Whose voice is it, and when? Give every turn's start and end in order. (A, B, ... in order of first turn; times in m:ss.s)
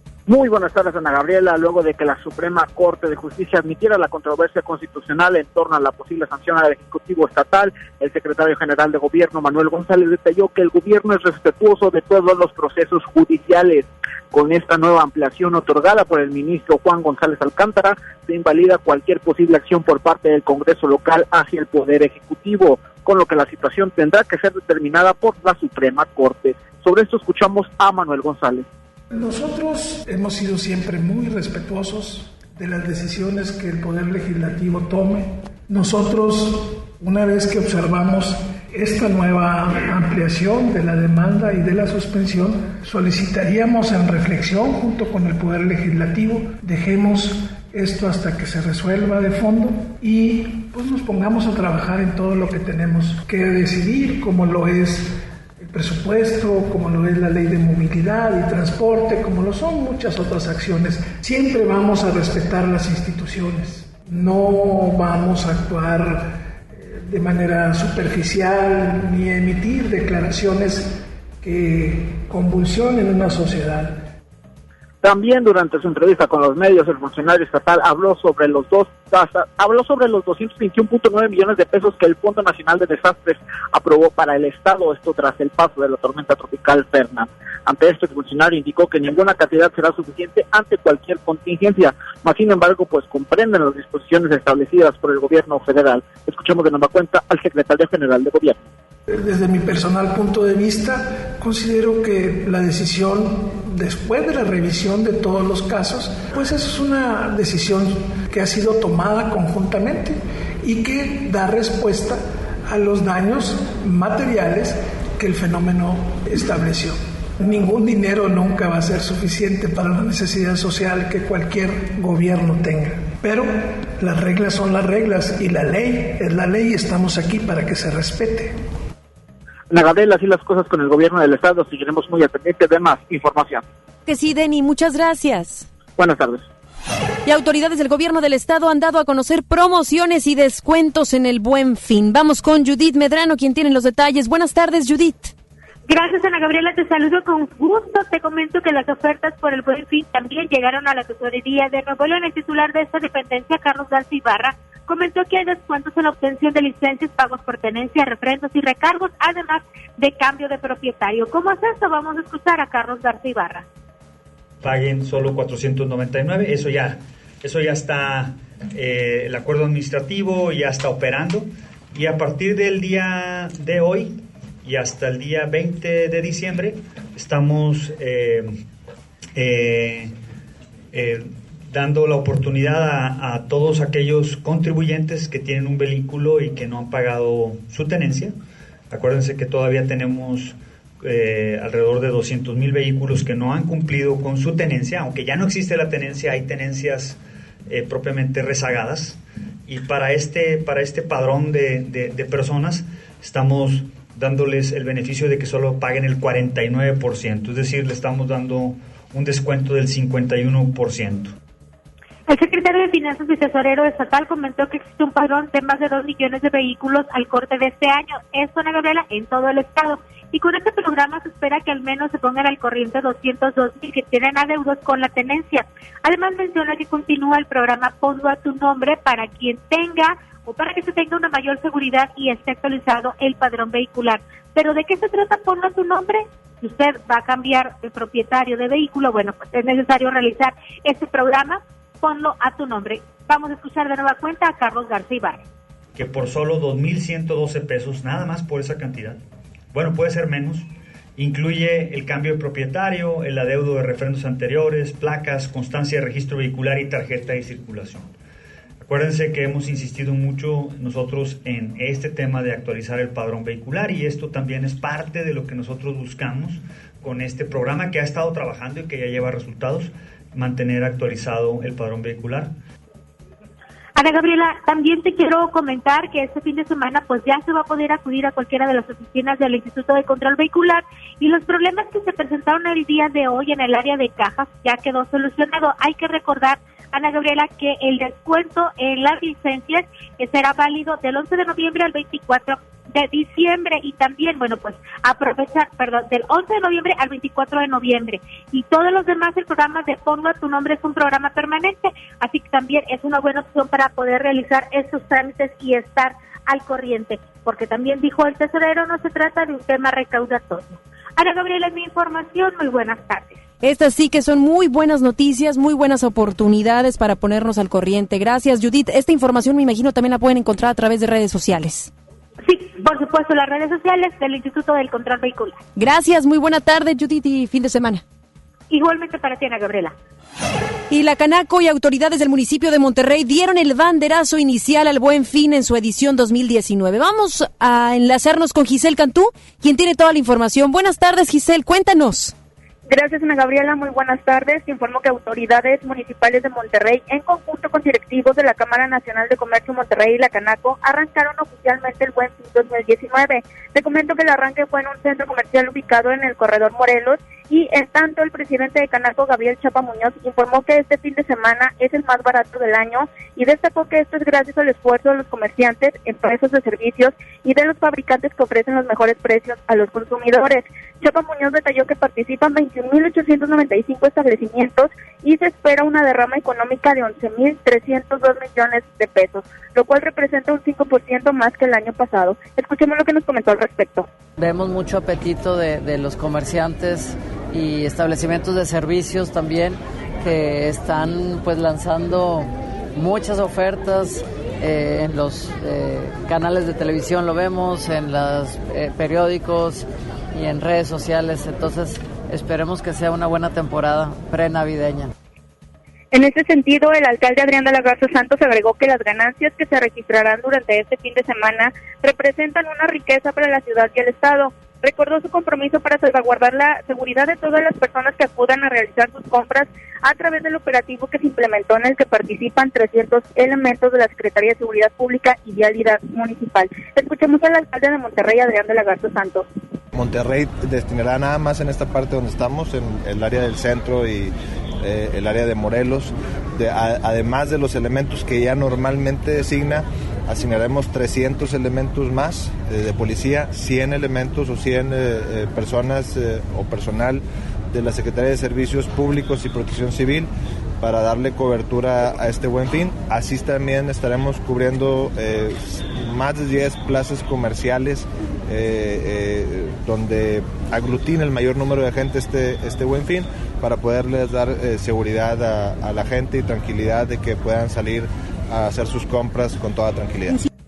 0:00.3-0:28.6 A
0:29.1-1:14.0 B
1:15.0-1:38.6 A
1:39.1-2:08.5 B
2:09.7-2:13.6 A
2:14.0-2:15.7 C
2:16.0-2:16.4 A
2:17.2-2:25.3 C
2:25.9-2:43.6 D
2:44.6-2:58.6 E
2:59.3-3:00.1 E
3:00.9-3:08.3 E
3:08.9-3:31.3 E
3:32.3-4:05.4 D
4:05.9-4:09.2 E
4:09.7-4:18.1 E
4:18.8-4:32.5 E
4:34.0-5:13.4 D
5:13.6-5:21.9 C
5:22.4-5:25.6 D
5:25.8-5:28.0 C
5:28.7-5:29.9 D
5:30.9-5:42.3 C
5:42.9-6:24.1 F
6:24.4-6:45.1 G
6:46.1-7:09.5 F
7:09.9-7:30.3 H
7:30.8-7:50.4 H